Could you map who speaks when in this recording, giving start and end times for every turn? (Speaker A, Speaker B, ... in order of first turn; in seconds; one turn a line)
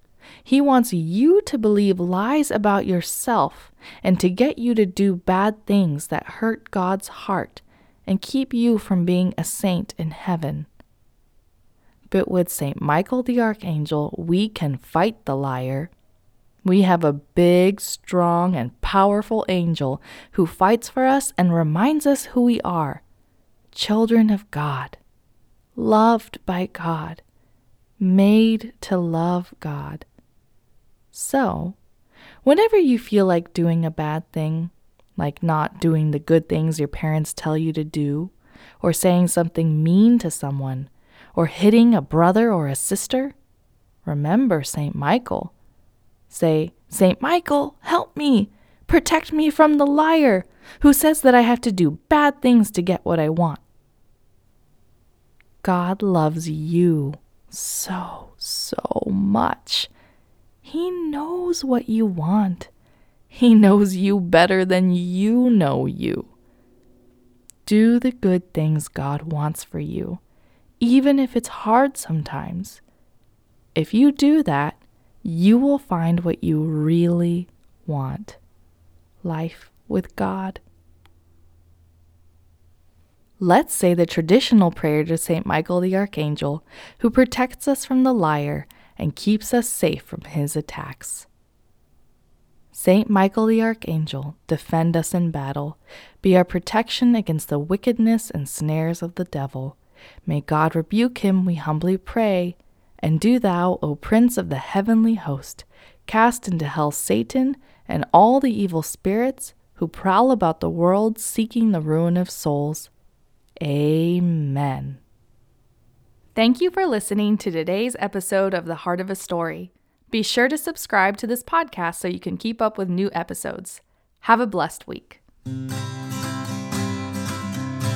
Speaker A: 0.4-10.7
Speaker A: 12.1-15.9
Speaker A: 16.6-23.0
Speaker A: 23.7-25.0
Speaker A: 25.8-27.2
Speaker A: 28.0-30.1
Speaker A: 31.1-31.8
Speaker A: 32.4-43.4
Speaker A: 44.0-45.5
Speaker A: 46.3-53.6
Speaker A: 55.6-59.9
Speaker A: 60.6-62.7
Speaker A: 63.3-66.3
Speaker A: 67.6-70.2
Speaker A: 70.8-72.8
Speaker A: 73.7-78.4
Speaker A: 79.2-80.6
Speaker A: 83.4-91.3
Speaker A: 92.7-112.9
Speaker A: 113.6-115.0
Speaker A: 116.3-125.2